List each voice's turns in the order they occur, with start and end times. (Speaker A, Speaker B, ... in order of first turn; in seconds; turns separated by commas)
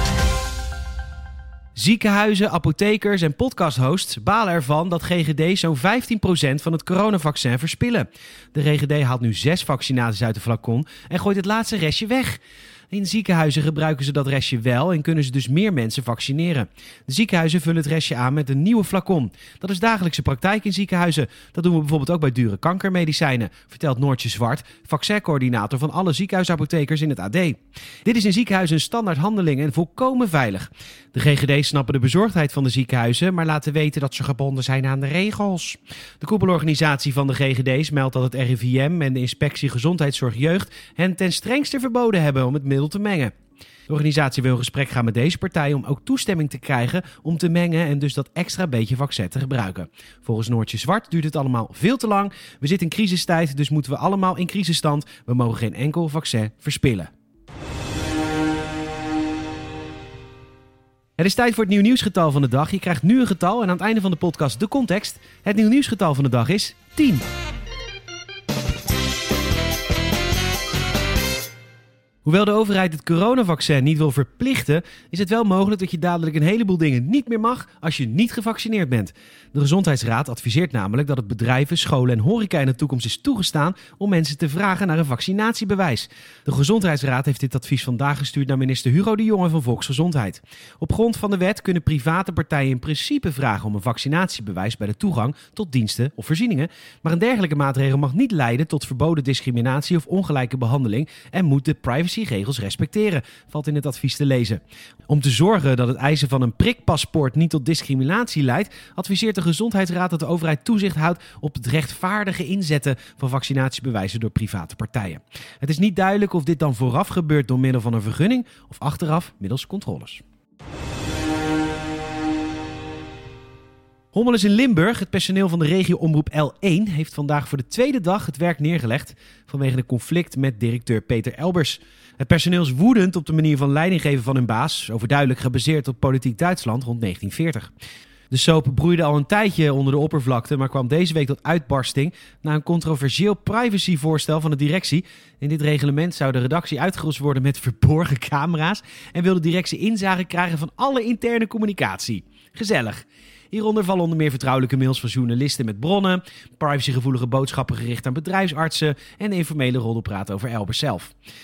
Speaker A: 1.7-12.4, Speaker A: 12.9-43.3, Speaker A: 43.9-57.1, Speaker A: 61.2-67.2, Speaker A: 72.2-120.2, Speaker A: 124.1-137.7, Speaker A: 138.3-161.1